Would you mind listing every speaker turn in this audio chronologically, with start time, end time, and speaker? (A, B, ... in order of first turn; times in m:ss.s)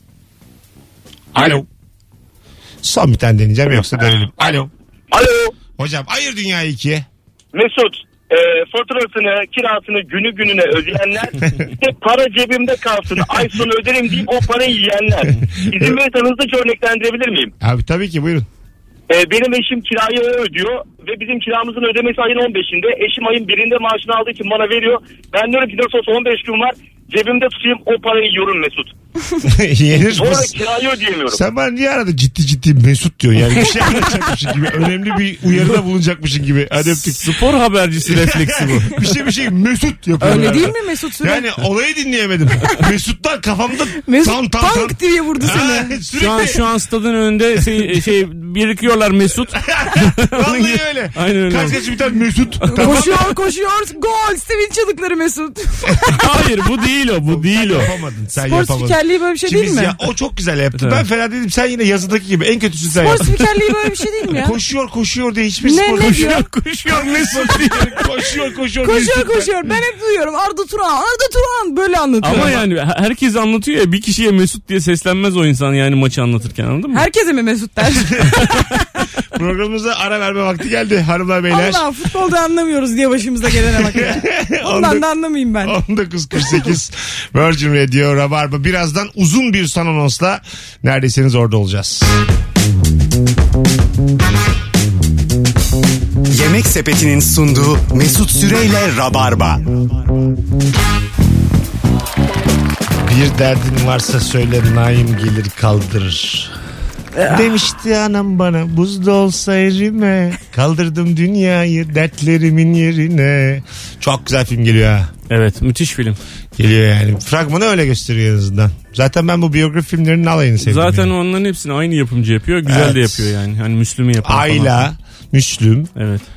0:01.3-0:01.7 A
0:02.8-0:04.7 A
0:05.1-0:05.5 B
0:05.8-0:07.1 A
0:07.5-0:17.5 B
0:15.3-0:16.0 A
0:17.6-0:18.5 A
0:19.1-0:28.9 B
0:29.4-0:30.6 A
0:30.1-0:31.4 B
0:31.3-0:37.3 A
0:36.8-0:39.0 C
0:38.1-0:46.6 A
0:40.2-0:41.5 D
0:44.0-0:46.0 D
0:46.2-0:51.8 C
0:49.6-0:53.3 A
0:52.6-0:53.0 C
0:52.8-0:56.3 D
0:56.1-0:57.9 C
0:57.3-1:03.3 A
0:58.4-1:00.0 D
1:00.7-1:01.0 C
1:02.9-1:04.6 D
1:04.3-1:09.6 A
1:05.6-1:06.5 D
1:06.0-1:08.0 C
1:08.8-1:12.6 D
1:12.2-1:17.0 C
1:16.9-1:18.7 D
1:17.9-1:18.6 A
1:19.3-1:21.8 A
1:21.5-1:25.8 D
1:23.6-1:25.0 A
1:25.6-1:32.2 A
1:36.3-1:39.8 E
1:43.0-1:46.5 A
1:47.2-1:55.1 A
1:55.3-1:56.2 C
1:56.6-2:01.1 A
2:00.6-2:04.9 C
2:02.6-2:03.3 A
2:04.2-2:05.9 A
2:06.0-2:06.2 C